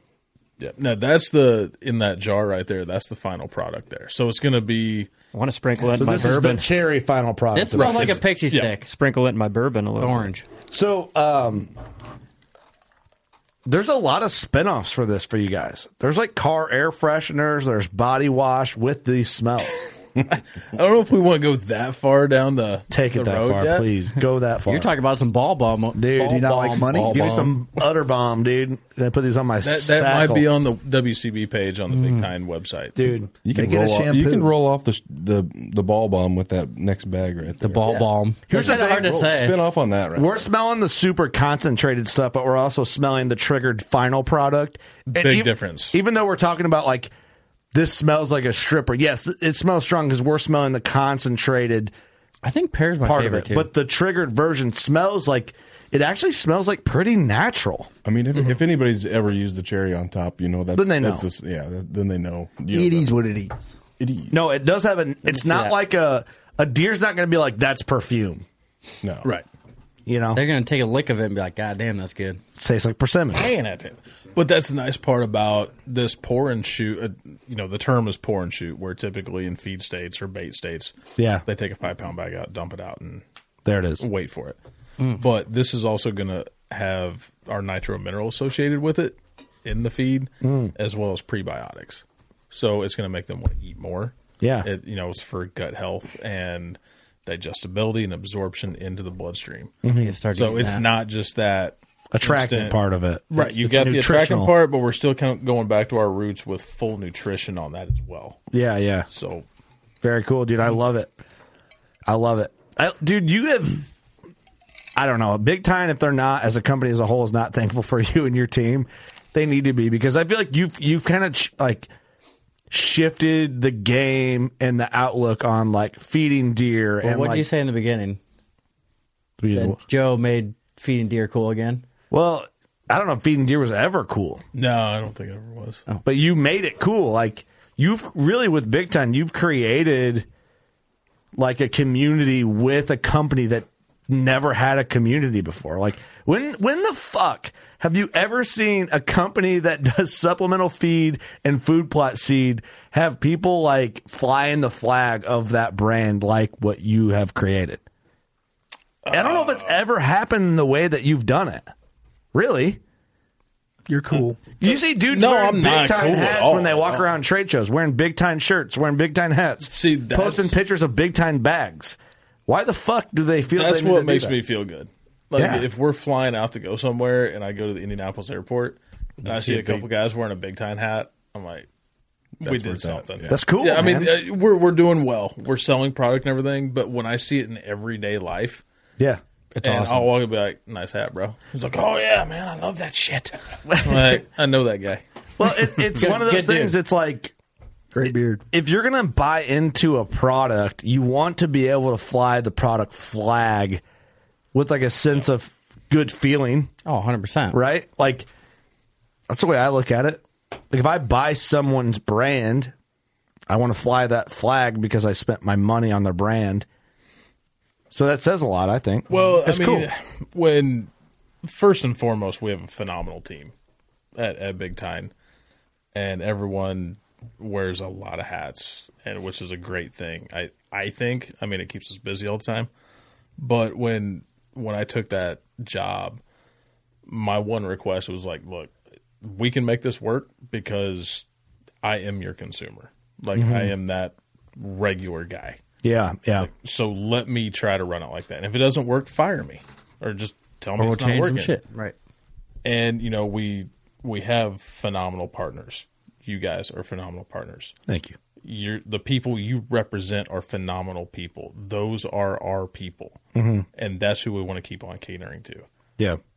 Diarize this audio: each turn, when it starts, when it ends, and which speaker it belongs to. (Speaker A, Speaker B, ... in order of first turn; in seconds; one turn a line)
Speaker A: 0.6-5.1
Speaker B: 5.3-6.7
Speaker C: 5.8-8.2
Speaker D: 7.5-8.9
Speaker A: 8.5-8.8
Speaker B: 8.8-10.3
Speaker D: 10.0-10.4
Speaker C: 10.7-11.7
Speaker C: 13.7-19.9
Speaker A: 20.3-23.9
Speaker C: 22.9-24.9
Speaker D: 24.7-26.9
Speaker C: 25.9-30.5
Speaker E: 26.1-27.5
Speaker F: 26.9-27.6
Speaker A: 29.6-33.0
Speaker D: 31.9-32.3
Speaker C: 33.0-33.3
Speaker F: 33.4-40.4
Speaker E: 33.5-34.5
Speaker D: 37.6-39.6
Speaker C: 38.5-39.3
Speaker C: 40.1-47.1
Speaker A: 45.1-46.0
Speaker C: 47.7-51.9
Speaker D: 52.4-53.7
Speaker C: 53.0-57.9
Speaker F: 58.0-63.1
Speaker C: 60.8-61.3
Speaker E: 62.7-63.7
Speaker F: 64.0-64.4
Speaker C: 64.3-68.5
Speaker D: 65.3-65.8
Speaker F: 69.0-69.3
Speaker C: 70.1-70.4
Speaker D: 70.3-72.4
Speaker C: 72.6-73.4
Speaker A: 73.3-80.9
Speaker C: 81.2-81.4
Speaker A: 81.5-83.2
Speaker C: 83.7-84.0
Speaker A: 84.0-84.6
Speaker A: 85.1-99.8
Speaker C: 90.4-90.7
Speaker C: 94.4-94.7
Speaker C: 99.8-100.1
Speaker D: 99.9-100.9
Speaker A: 100.3-102.8
Speaker C: 102.1-104.5
Speaker A: 103.3-108.4
Speaker C: 108.5-109.1
Speaker A: 109.1-109.5
Speaker C: 110.0-111.1
Speaker C: 112.1-113.8
Speaker C: 115.0-121.9
Speaker C: 122.7-127.5
Speaker D: 127.0-128.2
Speaker C: 129.4-129.8
Speaker D: 129.5-131.8
Speaker C: 132.1-134.4
Speaker A: 134.5-135.8
Speaker C: 136.0-140.3
Speaker C: 141.4-157.8
Speaker A: 159.1-159.8
Speaker C: 159.1-161.7
Speaker C: 162.3-162.8
Speaker E: 163.9-164.4
Speaker C: 164.6-174.3
Speaker A: 164.6-167.1
Speaker A: 169.7-170.6
Speaker A: 173.5-181.7
Speaker C: 175.4-175.7
Speaker D: 179.2-179.8
Speaker F: 182.4-183.4
Speaker A: 182.4-188.6
Speaker C: 183.3-184.1
Speaker D: 189.6-190.1
Speaker A: 189.6-195.0
Speaker C: 193.7-194.2
Speaker C: 195.4-197.3
Speaker D: 195.9-196.8
Speaker E: 197.9-198.4
Speaker C: 198.0-203.8
Speaker C: 204.5-206.7
Speaker D: 206.9-207.6
Speaker C: 207.5-208.3
Speaker C: 209.3-212.7
Speaker C: 213.5-216.7
Speaker C: 217.9-219.9
Speaker A: 219.1-220.9
Speaker A: 221.4-223.5
Speaker A: 224.2-225.1
Speaker A: 225.9-232.7
Speaker A: 233.4-236.2
Speaker A: 237.1-241.3
Speaker A: 241.8-245.6
Speaker C: 243.3-243.7
Speaker C: 245.8-246.5
Speaker A: 246.4-251.6
Speaker D: 250.8-251.9
Speaker A: 252.6-257.7
Speaker C: 257.9-258.2
Speaker A: 258.4-263.2
Speaker C: 263.4-263.6
Speaker A: 263.8-265.7